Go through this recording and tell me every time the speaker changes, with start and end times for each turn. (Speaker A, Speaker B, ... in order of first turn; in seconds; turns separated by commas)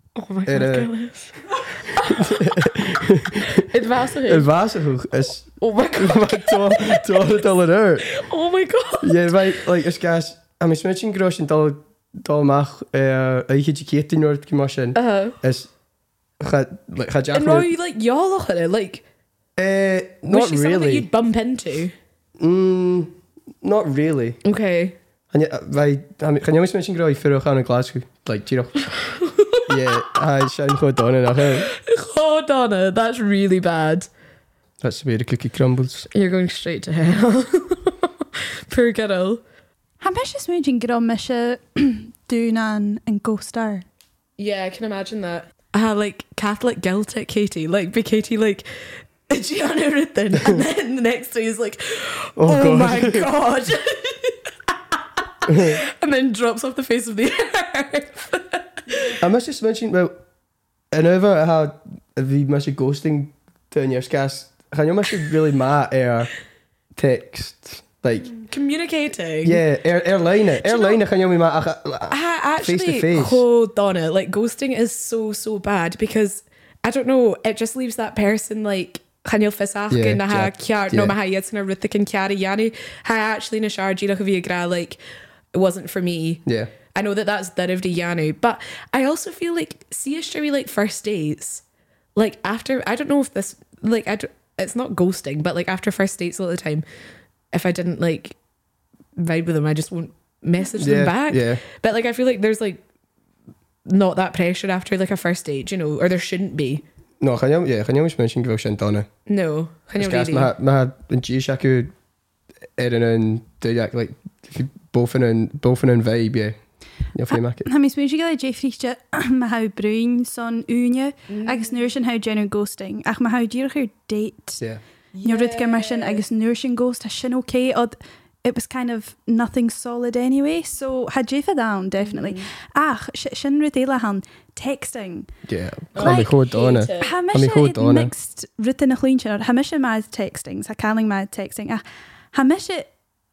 Speaker A: 0.2-2.4, Speaker B: 0.5-0.9, Speaker B: 1.9-3.6, Speaker A: 3.4-4.5, Speaker B: 4.2-8.1, Speaker A: 5.6-7.2, Speaker A: 8.1-9.4, Speaker B: 9.0-15.7, Speaker A: 14.9-15.3, Speaker B: 16.4-17.7, Speaker A: 17.3-19.0, Speaker B: 19.6-21.1, Speaker A: 20.3-21.9, Speaker B: 22.4-24.4, Speaker A: 24.4-25.0, Speaker B: 25.3-28.8, Speaker A: 28.9-30.1, Speaker B: 29.7-31.7, Speaker A: 31.3-34.1, Speaker B: 34.8-36.1, Speaker A: 36.1-39.4, Speaker C: 40.0-43.8, Speaker A: 44.4-48.7, Speaker A: 49.3-59.2, Speaker B: 52.4-53.3, Speaker B: 55.5-55.8, Speaker B: 59.2-60.1, Speaker B: 60.9-66.3, Speaker B: 67.0-68.4, Speaker A: 68.4-69.6, Speaker B: 69.4-73.4, Speaker A: 70.6-71.0, Speaker A: 72.1-85.0, Speaker B: 79.9-81.1, Speaker A: 85.5-91.6, Speaker B: 86.5-86.7, Speaker A: 92.2-96.8, Speaker A: 97.5-98.4, Speaker A: 99.2-102.8, Speaker B: 100.8-101.6, Speaker A: 103.8-106.8, Speaker B: 107.2-109.1, Speaker A: 109.3-110.5, Speaker B: 110.0-111.9, Speaker B: 112.8-116.5, Speaker B: 117.1-117.7, Speaker C: 117.3-124.6, Speaker A: 121.3-121.8, Speaker A: 125.1-126.2, Speaker C: 125.2-135.3, Speaker A: 132.0-132.4, Speaker B: 135.5-138.1, Speaker A: 135.9-137.1, Speaker C: 136.0-136.3, Speaker C: 137.0-141.8, Speaker C: 142.3-142.9